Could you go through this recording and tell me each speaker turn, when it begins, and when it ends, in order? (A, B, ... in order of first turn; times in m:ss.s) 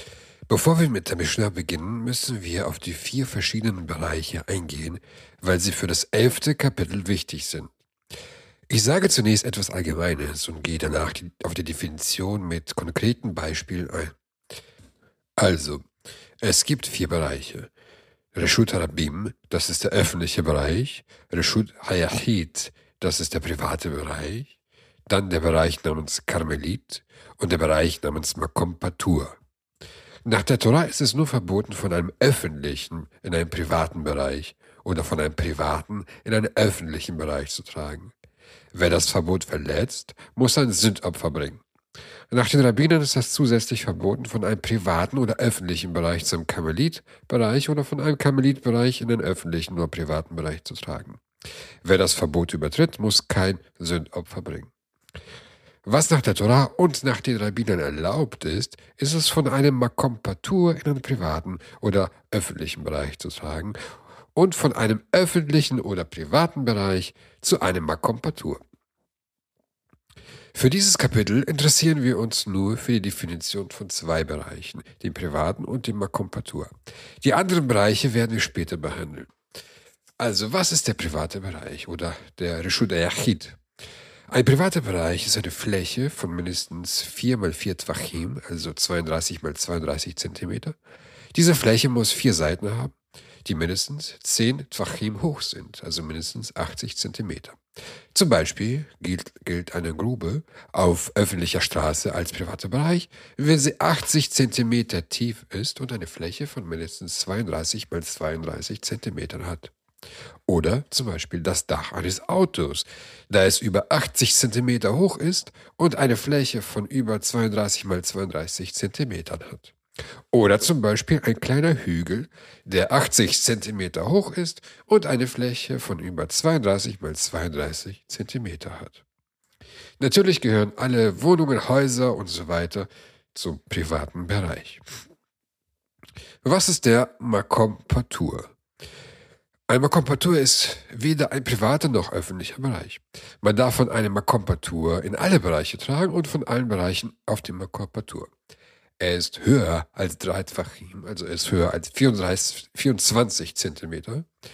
0:00.5-0:07.7 A
0:08.7-0:14.2 A
0:15.4-0:15.9 A
0:16.4-0:17.7 A
0:18.4-0:24.6 A
0:25.1-0:29.4 A
0:30.3-0:38.1 A
0:38.7-0:41.6 A
0:42.3-0:51.2 A
0:51.8-0:54.7 A
0:55.8-1:03.8 A
1:04.4-1:08.6 A
1:10.5-1:19.3 A
1:20.2-1:23.6 A
1:24.3-1:30.8 A
1:31.3-1:37.6 A
1:38.1-1:49.7 A
1:50.5-1:59.8 A
2:00.3-2:09.0 A
2:10.0-2:14.8 A
2:16.4-2:18.5 A
2:19.7-2:28.3 A
2:29.0-2:34.3 A